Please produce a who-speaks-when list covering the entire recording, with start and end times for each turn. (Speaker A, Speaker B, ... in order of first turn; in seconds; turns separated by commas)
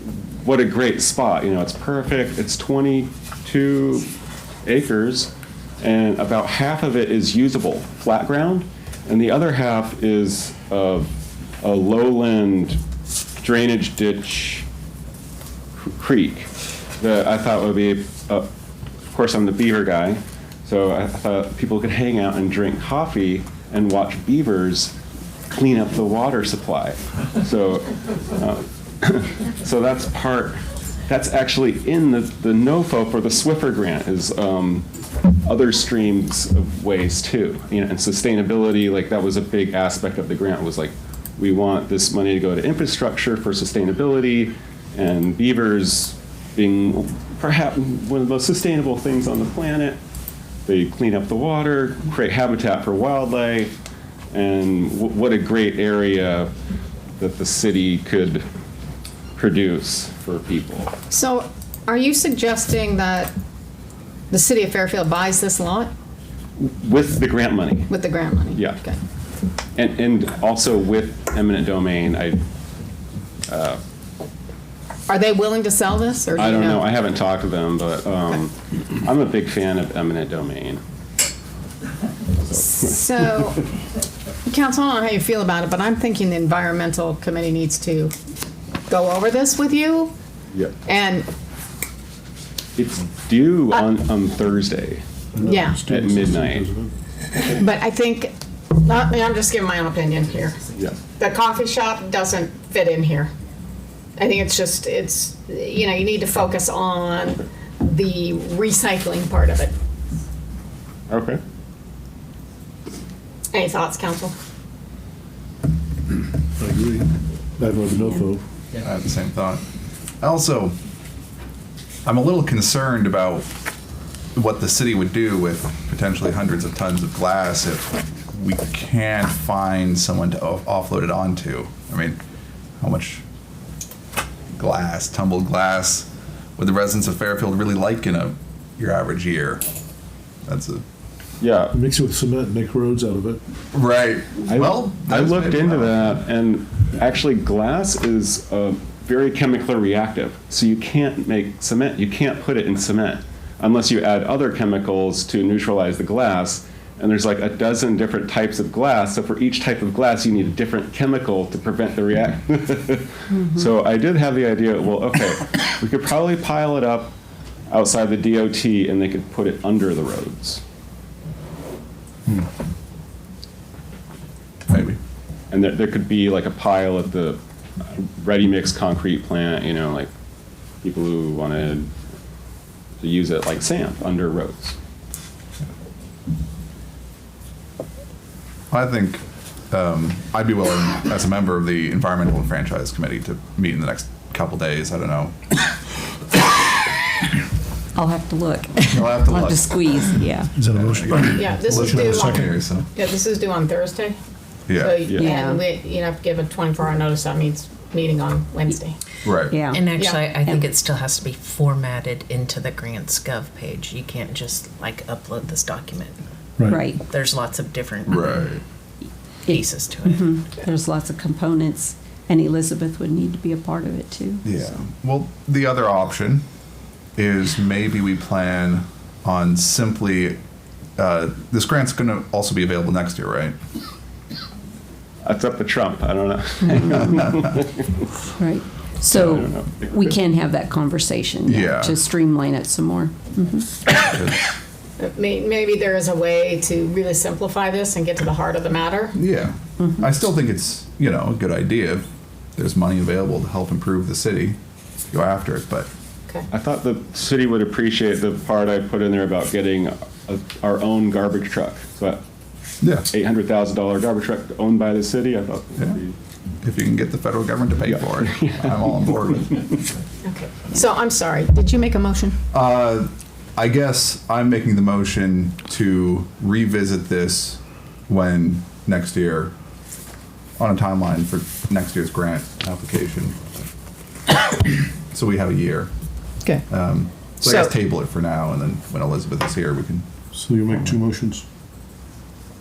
Speaker A: 0.3-4.1, Speaker A: 4.7-12.8, Speaker A: 13.4-14.7, Speaker A: 15.8-16.5, Speaker A: 17.0-18.5, Speaker A: 19.1-24.9, Speaker A: 25.5-34.9, Speaker A: 35.4-50.0, Speaker A: 50.7-53.7, Speaker A: 54.3-56.5, Speaker A: 57.2-58.5, Speaker A: 59.4-60.9, Speaker B: 61.1-63.3, Speaker B: 64.3-65.9, Speaker A: 66.6-67.9, Speaker B: 67.9-69.0, Speaker A: 68.5-68.8, Speaker A: 69.8-72.4, Speaker A: 73.5-73.8, Speaker B: 75.1-76.9, Speaker A: 76.3-80.8, Speaker A: 82.4-83.0, Speaker B: 82.6-83.7, Speaker B: 84.5-88.1, Speaker B: 88.9-90.1, Speaker B: 90.9-91.3, Speaker A: 92.8-95.0, Speaker C: 95.3-96.9, Speaker B: 95.4-95.8, Speaker A: 95.7-96.7, Speaker B: 97.4-100.7, Speaker B: 101.2-103.3, Speaker B: 104.2-109.7, Speaker A: 111.1-111.4, Speaker B: 113.5-114.3, Speaker C: 116.6-118.4, Speaker D: 118.8-119.6, Speaker D: 120.2-120.8, Speaker D: 122.0-123.5, Speaker D: 124.4-132.2, Speaker D: 132.8-133.2, Speaker D: 134.6-139.6, Speaker D: 140.5-140.8, Speaker A: 141.4-141.8, Speaker C: 141.7-143.4, Speaker D: 143.7-146.2, Speaker A: 144.4-167.1, Speaker E: 163.3-163.7, Speaker A: 167.7-170.6, Speaker D: 174.7-175.0, Speaker A: 175.5-180.1, Speaker A: 180.8-181.9, Speaker A: 183.0-184.8, Speaker D: 188.7-195.3, Speaker E: 197.9-200.5, Speaker D: 198.9-199.7, Speaker C: 200.6-202.7, Speaker D: 200.7-202.9, Speaker B: 201.3-204.2, Speaker D: 204.7-205.0, Speaker B: 204.8-209.0, Speaker A: 205.1-205.3, Speaker E: 205.2-205.6, Speaker D: 209.2-209.6, Speaker E: 209.5-209.9, Speaker F: 209.7-216.2, Speaker B: 209.9-210.4, Speaker C: 216.6-216.9, Speaker E: 216.7-217.0, Speaker F: 217.0-218.5, Speaker D: 218.1-218.6, Speaker E: 219.4-224.4, Speaker F: 219.5-220.3, Speaker D: 224.4-226.4, Speaker D: 227.2-230.4, Speaker D: 231.0-233.6, Speaker A: 235.2-237.9, Speaker E: 236.6-237.3, Speaker E: 238.4-243.7, Speaker A: 239.1-240.1, Speaker D: 241.5-242.0, Speaker D: 243.9-244.4, Speaker B: 245.0-249.2, Speaker D: 249.1-254.6, Speaker E: 249.8-250.1, Speaker D: 255.1-255.9, Speaker A: 256.5-262.2, Speaker D: 262.8-263.1, Speaker A: 263.1-266.2, Speaker D: 266.6-269.7, Speaker A: 267.9-269.7, Speaker B: 270.2-272.4, Speaker D: 272.5-279.5, Speaker D: 280.6-283.4, Speaker D: 285.1-285.9, Speaker D: 286.7-290.1, Speaker C: 290.3-291.4